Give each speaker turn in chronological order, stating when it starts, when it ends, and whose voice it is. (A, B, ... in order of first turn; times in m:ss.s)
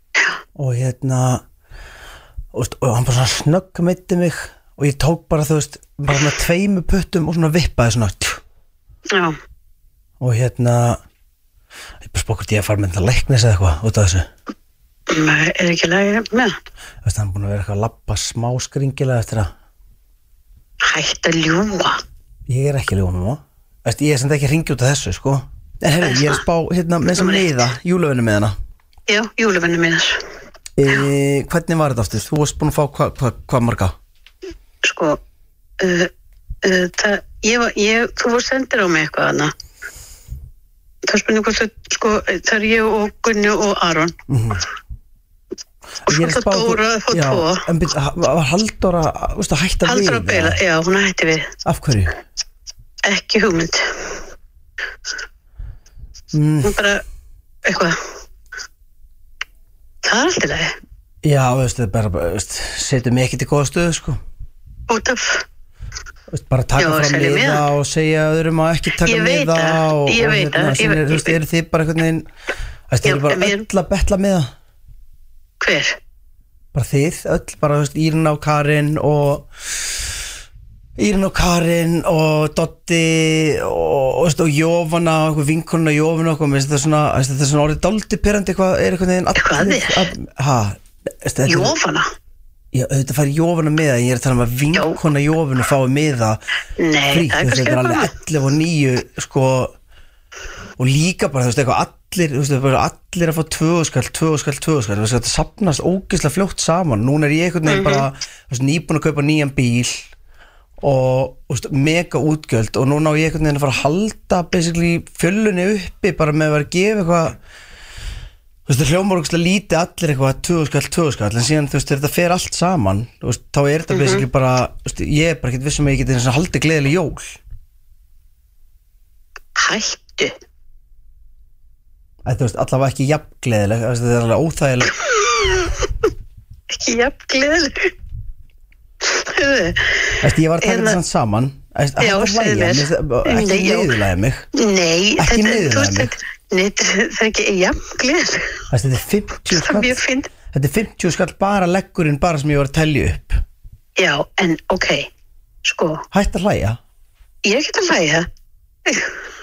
0:00.6-0:01.4 A
0:02.5-0:08.4 A
0:10.2-0:11.0 A
0:12.0-0:14.3 A
0:15.1-0:16.5 B
0:17.0-0:19.5 A
0:20.8-0:22.0 B
0:22.5-0:28.5 A
0:26.0-0:26.4 B
0:27.1-0:27.6 B
0:29.1-0:30.2 B
0:30.8-0:33.9 A
0:34.8-0:35.2 B
0:35.8-0:36.1 B
0:36.6-0:39.5 B
0:41.0-0:44.1 B
0:44.3-0:44.6 A
0:46.1-0:50.6 A
0:46.1-0:47.6 B
0:49.8-0:51.5 B
0:51.6-0:52.2 A
0:53.1-0:53.8 B
0:56.3-0:56.8 A
0:56.6-0:57.0 B
0:57.6-0:58.0 B
1:00.0-1:00.7 B
1:01.2-1:04.2 A
1:04.9-1:05.4 B
1:06.3-1:12.3 A
1:06.8-1:07.6 B
1:09.0-1:11.3 B
1:12.9-1:14.5 A
1:13.0-1:13.6 B
1:15.6-1:16.0 B
1:16.7-1:19.5 A
1:21.0-1:31.8 A
1:29.3-1:30.1 B
1:31.4-1:32.1 B
1:32.7-1:36.4 A
1:34.7-1:35.0 B
1:36.8-1:38.1 B
1:37.1-1:39.7 A
1:40.8-1:50.1 A
1:47.6-1:48.1 B
1:50.8-1:57.4 A
1:58.7-2:07.4 A
2:03.9-2:04.2 B
2:09.6-2:10.3 B
2:12.2-2:14.9 A
2:15.2-2:15.7 B
2:16.7-2:17.9 B
2:19.0-2:21.0 B
2:20.2-2:24.4 A
2:22.0-2:24.0 B
2:24.5-2:28.6 B
2:25.2-2:26.1 A
2:28.7-2:33.4 A
2:29.5-2:30.3 B
2:34.0-2:35.1 B
2:35.6-2:36.0 B
2:36.1-2:36.8 A
2:37.4-2:38.3 B
2:38.8-2:39.2 B